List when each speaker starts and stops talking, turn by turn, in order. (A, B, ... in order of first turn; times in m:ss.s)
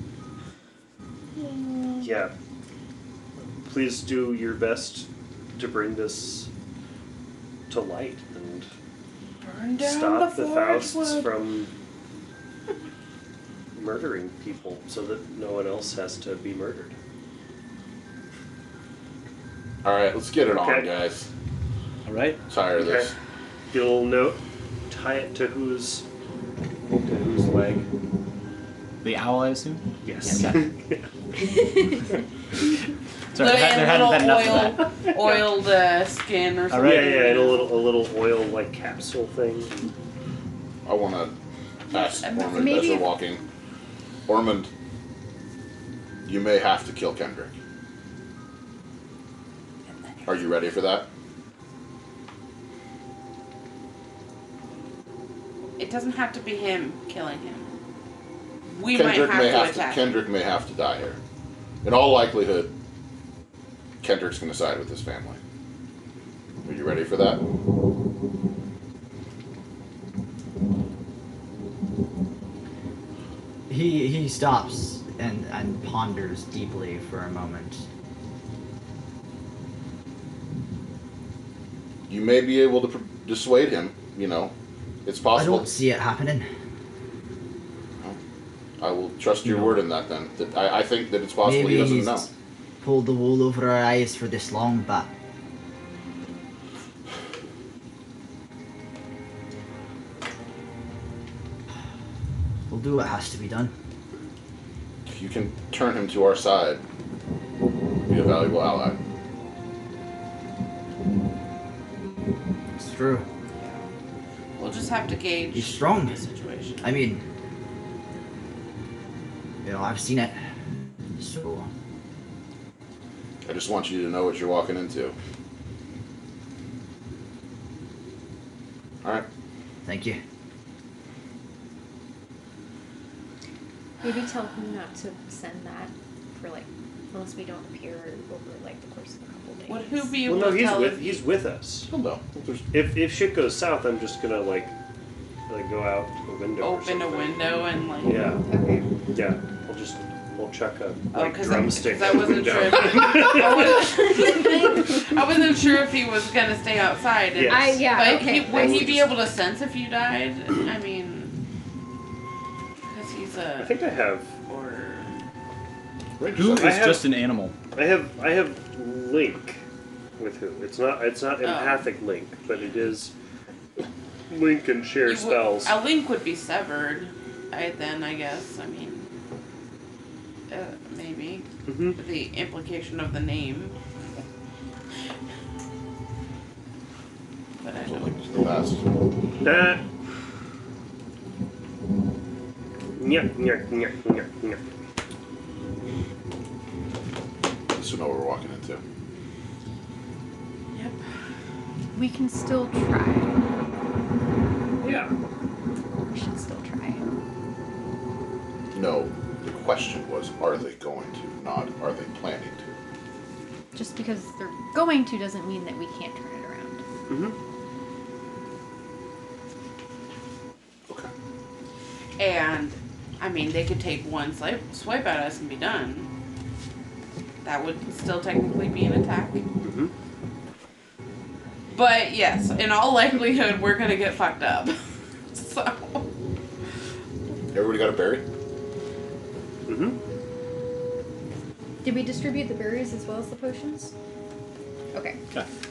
0:01.4-0:02.0 A
0:02.0-0:02.3 B
0:03.6-0:06.5 B
0:07.7-0:08.7 B
0:09.4-0:11.3 A
0:09.8-0:11.7 B
0:13.7-0:16.9 B
0:19.8-0:21.3 C
0:20.5-0:20.9 B
0:22.0-0:22.4 D
0:22.5-0:23.1 C
0:22.7-0:23.1 B
0:23.7-0:26.0 B
0:26.9-0:27.8 B
0:29.0-0:30.6 D
0:30.0-0:31.1 B
0:33.3-0:34.9 D
0:33.3-0:37.7 A
0:36.7-0:37.4 D
0:36.8-0:39.8 B
0:40.8-0:41.4 C
0:41.9-0:43.4 C
0:41.9-0:42.8 A
0:42.5-0:43.1 E
0:44.3-0:44.7 C
0:46.2-0:47.5 C
0:50.1-0:50.4 A
0:50.2-0:51.1 C
0:55.8-0:57.7 A
0:58.7-1:00.1 A
0:58.9-1:01.2 C
1:01.8-1:02.7 C
1:04.0-1:05.4 C
1:06.6-1:07.4 C
1:13.7-1:17.8 F
1:22.1-1:24.5 C
1:25.0-1:25.7 C
1:25.3-1:26.5 F
1:28.8-1:32.3 C
1:31.4-1:32.3 F
1:32.8-1:35.1 F
1:42.7-1:43.7 F
1:45.0-1:46.8 C
1:48.0-1:49.0 C
1:52.8-1:53.2 F
1:53.6-1:53.9 A
1:54.6-1:56.9 A
1:55.5-1:56.2 F
1:56.8-1:57.2 F
1:59.6-2:00.4 F
2:01.2-2:01.7 F
2:03.4-2:05.2 C
2:09.8-2:10.2 F
2:14.0-2:20.2 E
2:19.7-2:21.2 A
2:20.2-2:21.9 B
2:21.9-2:22.7 C
2:22.7-2:24.7 B
2:25.5-2:28.4 B
2:26.6-2:28.3 A
2:28.4-2:28.8 E
2:29.1-2:33.8 B
2:31.1-2:41.4 A
2:33.8-2:34.8 E
2:37.3-2:39.0 B
2:37.5-2:38.9 E
2:38.6-2:39.0 C
2:42.9-2:43.8 A
2:43.6-2:44.3 B
2:44.4-2:45.2 A
2:46.2-2:46.9 C
2:46.3-2:47.6 D
2:46.5-2:47.1 B
2:47.7-2:49.6 B
2:50.2-2:53.1 B
2:51.4-2:51.8 A
2:54.3-2:55.8 B
2:55.0-2:59.1 A
3:00.5-3:03.8 A
3:01.6-3:02.0 B
3:07.6-3:08.1 A
3:07.8-3:09.0 C
3:09.4-3:09.8 B
3:13.0-3:14.6 B
3:17.7-3:18.8 C
3:21.9-3:23.4 E
3:24.8-3:25.1 B
3:24.8-3:25.1 E
3:25.8-3:27.0 E
3:28.7-3:32.8 C
3:33.7-3:36.8 E
3:37.1-3:37.4 B
3:42.2-3:46.1 A
3:47.4-3:49.4 A
3:49.6-3:49.9 B
3:51.7-3:54.8 A
3:55.3-3:56.1 A
3:57.5-3:58.2 C
3:59.6-4:00.0 B
4:01.8-4:03.9 E
4:04.9-4:05.2 E